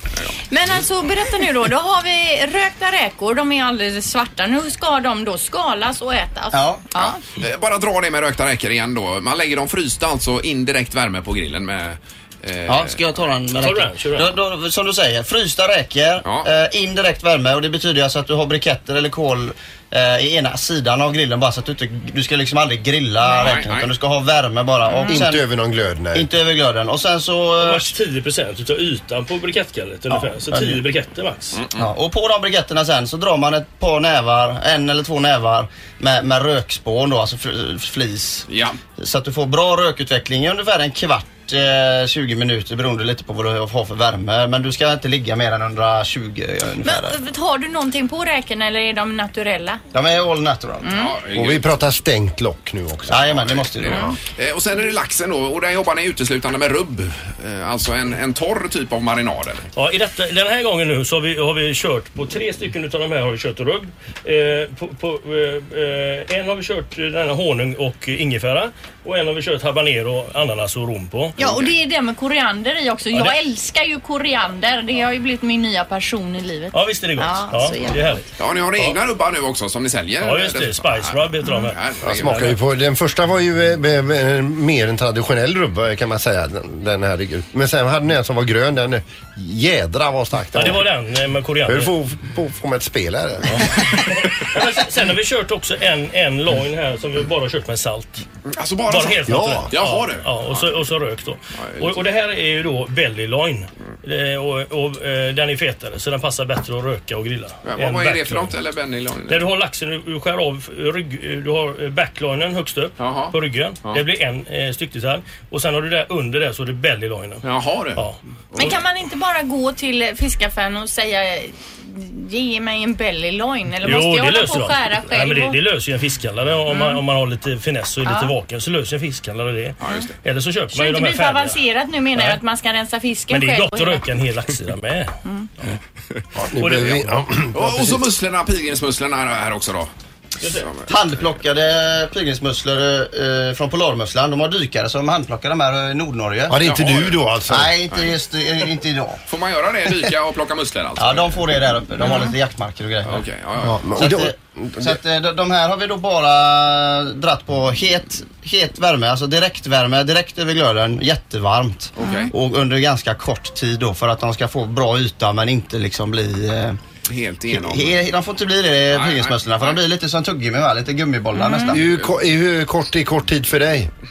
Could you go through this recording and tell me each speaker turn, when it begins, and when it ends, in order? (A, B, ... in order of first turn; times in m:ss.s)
0:00.5-0:07.2 A
0:06.5-0:06.8 B
0:07.0-0:13.0 C
0:12.7-0:25.4 B
0:13.6-0:14.3 D
0:23.4-0:23.9 C
0:24.9-0:25.2 A
0:25.1-0:26.3 E
0:26.1-0:27.9 B
0:27.6-0:31.6 D
0:30.1-0:30.8 B
0:31.5-0:31.8 C
0:31.7-0:47.2 B
0:38.5-0:38.8 C
0:46.8-0:49.8 A
0:49.9-0:50.9 B
0:50.8-0:51.1 A
0:50.9-0:51.7 C
0:51.3-0:54.2 E
0:53.1-0:54.1 B
0:53.5-0:59.6 C
0:59.8-1:11.3 D
1:11.4-1:18.2 A
1:11.4-1:11.7 C
1:16.7-1:18.2 D
1:18.4-1:22.6 C
1:20.2-1:22.5 D
1:22.0-1:30.8 E
1:30.5-1:31.9 D
1:31.6-1:33.9 E
1:33.6-1:38.2 D
1:38.5-1:40.8 C
1:38.9-1:48.5 D
1:39.3-1:39.7 E
1:41.6-1:42.0 C
1:47.6-1:49.4 C
1:49.3-1:57.4 D
1:53.0-1:54.0 C
1:57.4-1:58.0 C
1:57.9-1:58.7 D
1:58.6-2:05.6 A
2:03.8-2:11.6 D
2:06.7-2:07.0 A
2:08.0-2:08.3 A
2:09.8-2:10.1 C
2:10.7-2:14.0 A
2:12.1-2:12.4 D
2:13.3-2:15.1 D
2:16.4-2:18.0 E
2:16.6-2:17.2 D
2:17.5-2:19.9 C
2:20.4-2:20.7 D
2:20.6-2:20.8 C
2:20.9-2:26.6 B
2:26.5-2:27.7 E
2:26.6-2:27.2 C
2:27.5-2:29.2 B
2:29.3-2:31.4 C
2:31.0-2:33.2 B
2:32.0-2:32.3 A
2:33.0-2:34.0 C
2:33.6-2:35.0 E
2:34.0-2:46.8 B
2:42.0-2:42.3 C
2:47.1-2:48.0 C
2:47.5-2:51.8 B
2:48.9-2:49.8 C
2:51.3-2:51.8 A
2:51.7-2:53.9 E